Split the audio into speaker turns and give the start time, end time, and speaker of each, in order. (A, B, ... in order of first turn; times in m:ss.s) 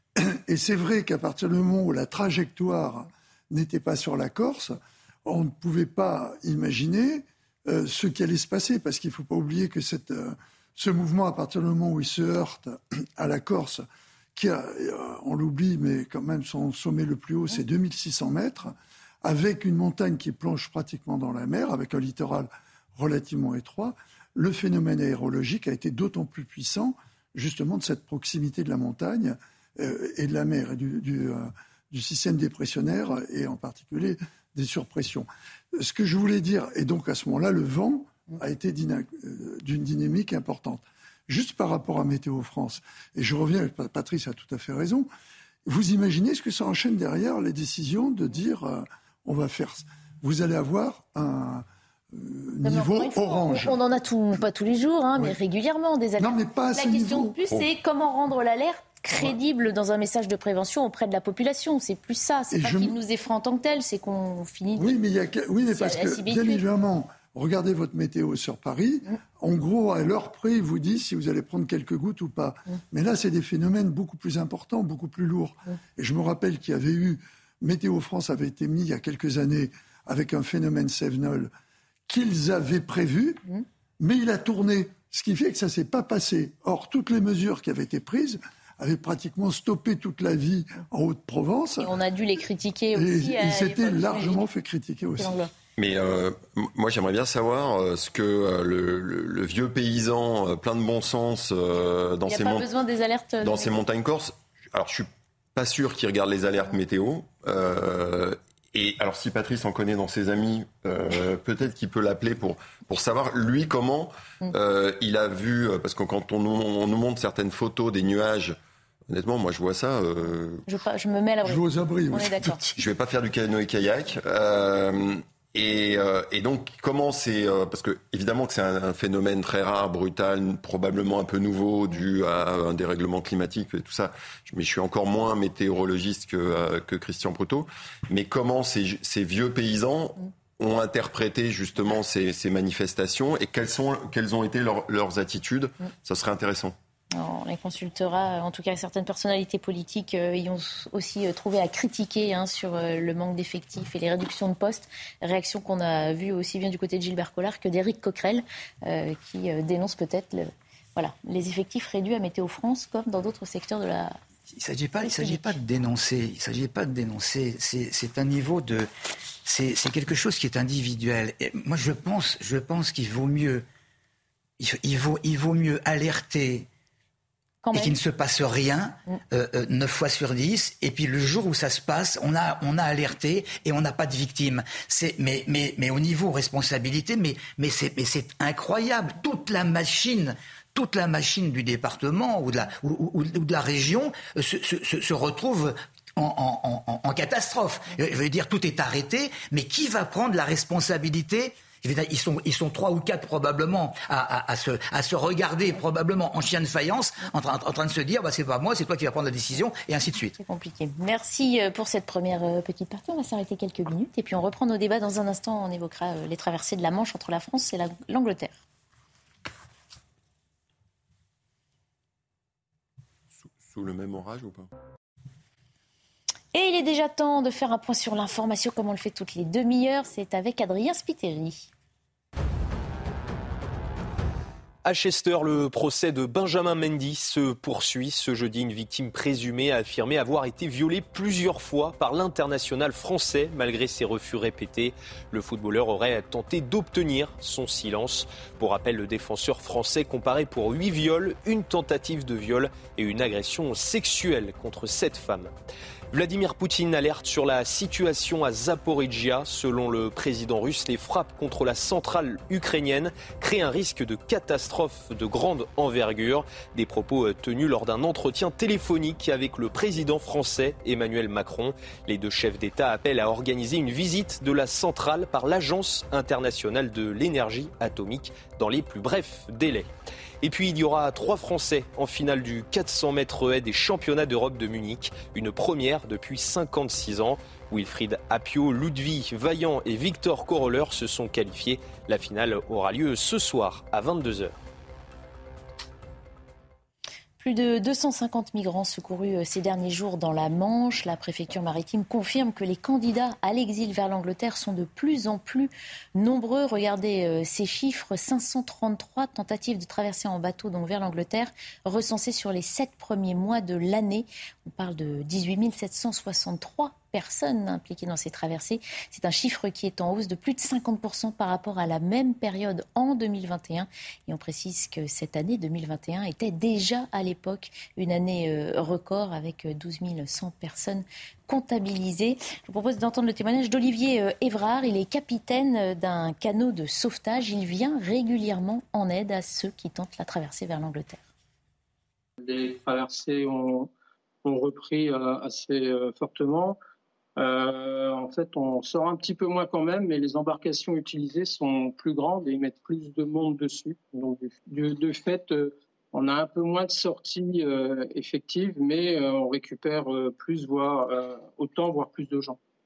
0:00.2-0:13.8 A
0:14.3-0:45.1 A
0:45.6-0:53.8 A
0:52.6-1:04.9 B
0:56.2-0:57.4 A
1:02.5-1:03.0 A
1:04.8-1:21.5 A
1:05.7-1:06.6 B
1:22.1-1:23.4 A
1:24.0-1:31.9 A
1:31.8-1:34.4 B
1:32.9-1:35.3 A
1:35.2-1:35.5 B
1:35.8-1:42.7 C
1:42.3-1:43.7 B
1:43.4-1:58.6 C
1:59.1-2:00.6 C
2:00.7-2:02.6 B
2:01.4-2:02.7 A
2:02.8-2:26.8 C
2:27.1-2:44.2 B
2:44.5-2:48.9 D
2:45.0-2:45.6 B
2:49.4-2:53.6 D
2:54.6-2:56.7 D
2:57.6-2:58.0 B
2:57.7-3:30.4 D
3:30.4-3:38.6 B
3:43.4-3:44.7 C
3:46.5-3:51.7 B
3:54.8-4:15.5 E
4:16.1-4:39.9 E
4:40.4-4:54.5 E
4:57.4-5:41.2 B
5:42.4-5:43.9 F
5:44.4-5:46.8 F
5:47.4-6:02.6 F